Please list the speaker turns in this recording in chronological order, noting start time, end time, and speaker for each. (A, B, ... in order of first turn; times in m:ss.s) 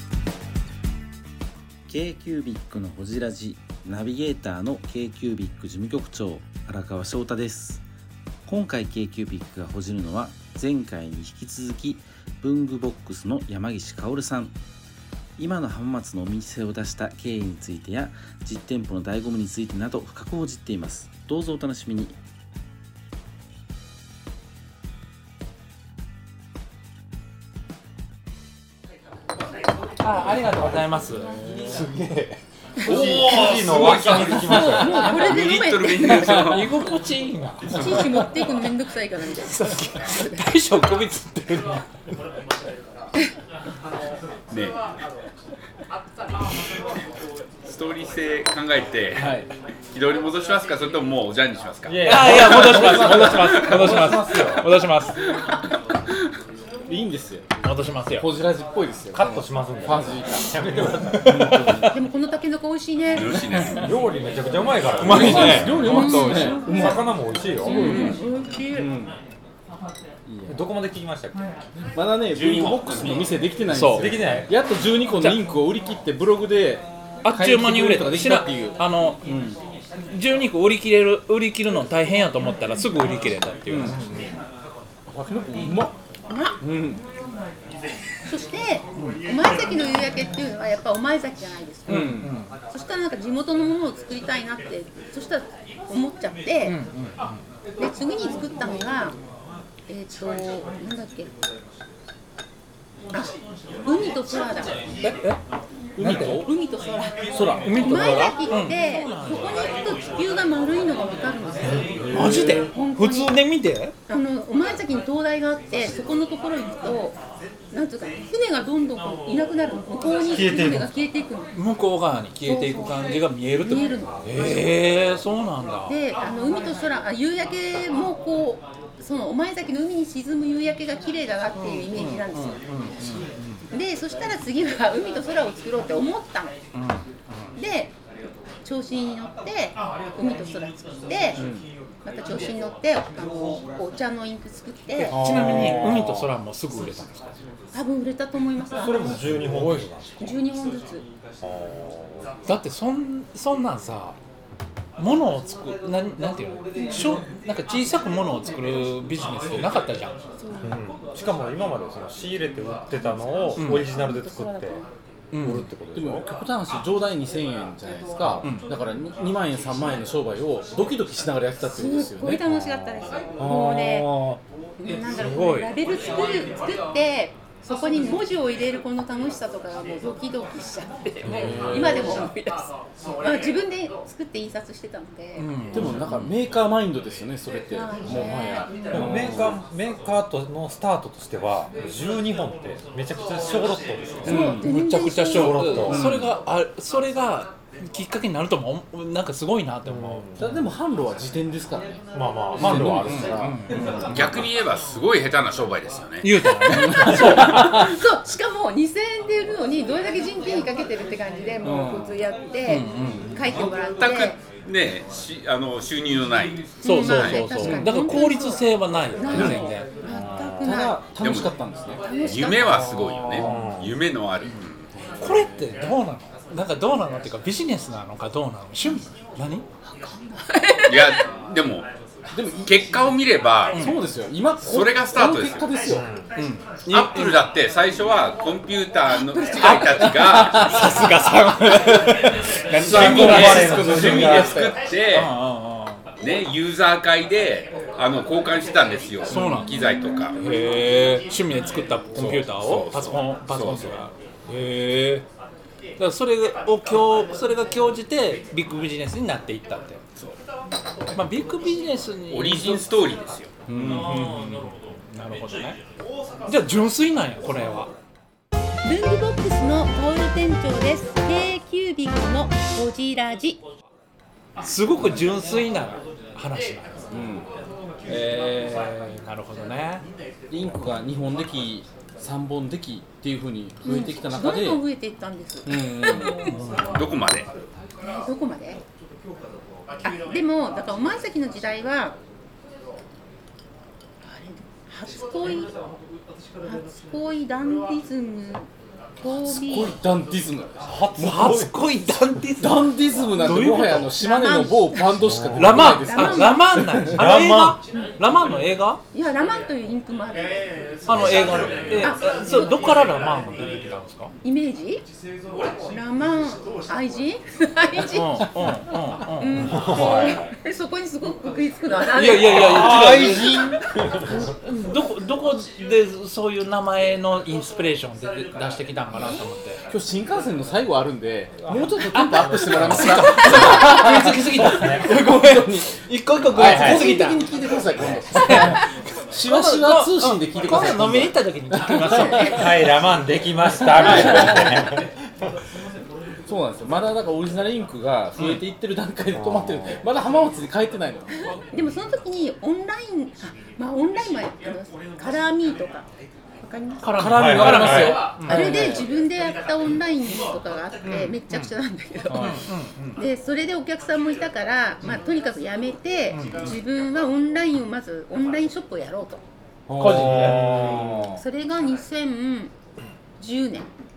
0:01.9-0:07.8 A
0:08.5-0:14.6 A
0:15.4-0:22.2 A
0:30.0-0:31.9 B
0:30.6-0:35.2 C
0:31.5-0:31.8 D
0:32.8-0:36.2 D
0:32.8-0:35.2 E
0:33.0-0:34.2 F
0:35.2-0:36.8 F
0:36.1-0:36.6 C
0:36.4-0:38.2 B
0:37.7-0:40.4 D
0:37.8-0:38.0 F
0:38.0-0:38.3 C
0:39.4-0:41.9 B
0:44.5-0:44.8 F
0:47.6-0:49.3 F
0:49.2-0:49.5 C
0:49.9-0:52.2 F
0:51.8-0:54.7 E
0:52.0-0:55.2 B
0:52.2-0:54.0 C
0:56.9-0:57.5 C
0:57.6-0:58.3 B
0:58.1-1:02.0 C
0:59.1-1:01.8 E
1:01.9-1:03.5 D
1:03.2-1:04.0 F
1:03.6-1:03.8 B
1:03.8-1:06.0 E
1:05.0-1:08.2 C
1:05.0-1:06.6 B
1:05.2-1:08.9 D
1:06.6-1:07.8 E
1:07.8-1:08.1 B
1:08.7-1:09.2 C
1:10.3-1:10.7 C
1:10.5-1:11.4 E
1:11.9-1:19.6 C
1:12.3-1:13.2 F
1:13.7-1:14.1 B
1:13.9-1:14.5 E
1:15.0-1:15.5 B
1:17.2-1:19.2 B
1:20.1-1:24.3 B
1:23.7-1:24.3 C
1:25.1-1:25.9 C
1:26.3-1:26.6 D
1:26.6-1:27.0 C
1:28.3-1:32.1 D
1:31.9-1:32.5 B
1:31.9-1:32.4 C
1:32.7-1:36.8 D
1:36.6-1:37.4 B
1:37.8-1:39.2 D
1:39.9-1:41.3 D
1:43.1-1:44.8 D
1:45.0-1:45.4 B
1:46.0-1:46.5 C
1:46.0-1:46.4 B
1:46.1-1:47.2 D
1:47.3-1:47.8 C
1:47.6-1:50.0 B
1:47.8-1:52.0 D
1:51.6-1:52.2 E
1:52.1-1:52.7 C
1:52.1-1:54.0 B
1:52.5-1:53.4 D
1:54.1-1:57.2 D
1:57.7-2:01.5 D
2:00.3-2:01.0 E
2:01.5-2:06.0 B
2:02.4-2:04.6 D
2:05.8-2:12.6 D
2:11.6-2:13.6 B
2:13.7-2:16.6 D
2:16.7-2:17.5 B
2:17.6-2:18.0 D
2:18.6-2:21.4 D
2:21.4-2:21.7 C
2:22.0-2:25.3 D
2:25.0-2:27.3 B
2:25.1-2:26.2 C
2:25.6-2:26.3 E
2:27.7-2:29.3 D
2:28.8-2:30.4 E
2:29.2-2:29.9 C
2:30.2-2:31.1 D
2:31.4-2:32.3 E
2:32.5-2:34.2 B
2:35.0-2:40.2 B
2:36.8-2:37.2 D
2:40.4-2:40.7 D
2:40.6-2:44.8 E
2:43.0-2:44.9 D
2:43.6-2:43.9 B
2:45.3-2:45.7 B
2:45.4-2:46.3 E
2:45.9-2:52.4 C
2:48.2-2:48.5 E
2:48.4-2:48.7 B
2:51.7-2:54.1 D
2:52.7-2:53.0 E
2:53.4-2:54.1 C
2:54.0-2:54.4 B
2:54.8-3:05.5 D
2:55.1-2:55.7 B
3:01.2-3:02.3 C
3:05.4-3:06.4 B
3:05.7-3:09.6 C
3:07.7-3:09.2 D
3:08.9-3:14.5 E
3:14.2-3:14.7 C
3:14.3-3:15.9 D
3:14.5-3:20.6 B
3:15.2-3:16.0 E
3:15.8-3:16.4 C
3:19.8-3:20.6 E
3:20.4-3:22.0 C
3:22.1-3:24.1 E
3:22.6-3:24.3 C
3:22.6-3:24.4 B
3:24.1-3:26.4 F
3:26.2-3:27.8 B
3:26.5-3:28.0 C
3:26.8-3:34.4 D
3:31.6-3:32.3 C
3:32.6-3:33.6 B
3:33.0-3:33.4 C
3:33.8-3:37.6 F
3:36.8-3:41.1 D
3:36.8-3:39.9 B
3:37.5-3:38.0 C
3:39.3-3:39.7 C
3:40.0-3:40.8 E
3:40.6-3:42.0 C
3:41.2-3:41.6 F
3:42.0-3:42.9 D
3:42.1-3:44.9 F
3:42.6-3:43.5 C
3:43.4-3:44.0 E
3:43.4-3:43.7 B
3:45.0-3:45.8 C
3:45.2-3:49.6 B
3:49.9-3:51.2 D
3:50.9-3:51.9 F
3:52.3-3:53.2 C
3:52.6-3:53.8 F
3:53.7-3:54.0 B
3:53.7-3:56.3 C
3:54.6-3:55.8 F
3:55.8-3:56.3 E
3:56.3-3:57.4 B
3:56.9-4:00.9 F
3:59.1-4:01.0 D
3:59.6-4:04.0 B
4:02.8-4:04.9 C
4:02.8-4:04.7 E
4:02.9-4:05.4 F
4:05.1-4:06.0 B
4:06.2-4:10.4 F
4:09.3-4:09.7 B
4:09.6-4:10.2 D
4:10.4-4:15.3 B
4:12.1-4:12.4 C
4:12.3-4:14.0 F
4:16.0-4:20.0 B
4:21.1-4:23.1 B
4:22.3-4:23.5 F
4:23.7-4:25.8 B
4:23.8-4:24.1 C
4:26.5-4:27.9 B
4:28.8-4:33.6 D
4:34.6-4:37.2 B
4:37.1-4:37.5 C
4:38.1-4:40.0 B
4:40.5-4:44.8 C
4:43.8-4:46.5 D
4:45.7-4:46.4 C
4:46.3-4:47.0 B
4:46.9-4:47.5 F
4:48.0-4:48.8 D
4:50.0-4:52.2 D
4:54.2-4:55.8 D
4:56.6-4:58.7 D
4:59.2-5:00.0 D
4:59.4-5:01.6 C
5:00.8-5:01.9 E
5:01.2-5:04.2 B
5:02.6-5:07.3 C
5:04.2-5:05.1 D
5:05.2-5:05.9 E
5:05.6-5:09.0 B
5:06.0-5:06.6 D
5:07.1-5:07.8 E
5:09.1-5:10.6 D
5:11.0-5:14.3 B
5:11.2-5:12.0 E
5:12.0-5:13.0 D
5:14.4-5:15.0 D
5:15.9-5:18.8 D
5:18.1-5:19.7 B
5:19.3-5:23.7 D
5:19.6-5:20.5 E
5:22.1-5:23.5 B
5:22.4-5:24.5 E
5:24.6-5:29.8 B
5:29.9-5:42.7 C
5:31.6-5:33.0 E
5:32.2-5:37.4 B
5:34.5-5:35.0 E
5:36.6-5:37.3 E
5:38.0-5:38.8 B
5:39.4-5:42.7 B
5:42.1-5:42.6 D
5:42.4-5:45.1 E
5:43.8-5:44.6 C
5:44.0-5:44.7 B
5:44.0-5:44.6 D
5:46.5-5:51.5 C
5:48.4-5:48.6 B
5:49.3-5:50.0 E
5:51.6-5:56.1 D
5:56.6-5:57.1 D
5:57.0-5:58.8 B
5:57.1-5:59.1 C
5:57.3-5:58.2 E
5:58.2-6:09.4 D
6:01.0-6:01.7 B
6:02.3-6:02.7 C
6:02.4-6:03.2 B
6:06.3-6:06.8 B
6:09.9-6:11.4 C
6:10.0-6:10.8 B
6:10.0-6:11.3 E
6:11.3-6:12.7 D
6:13.4-6:13.9 D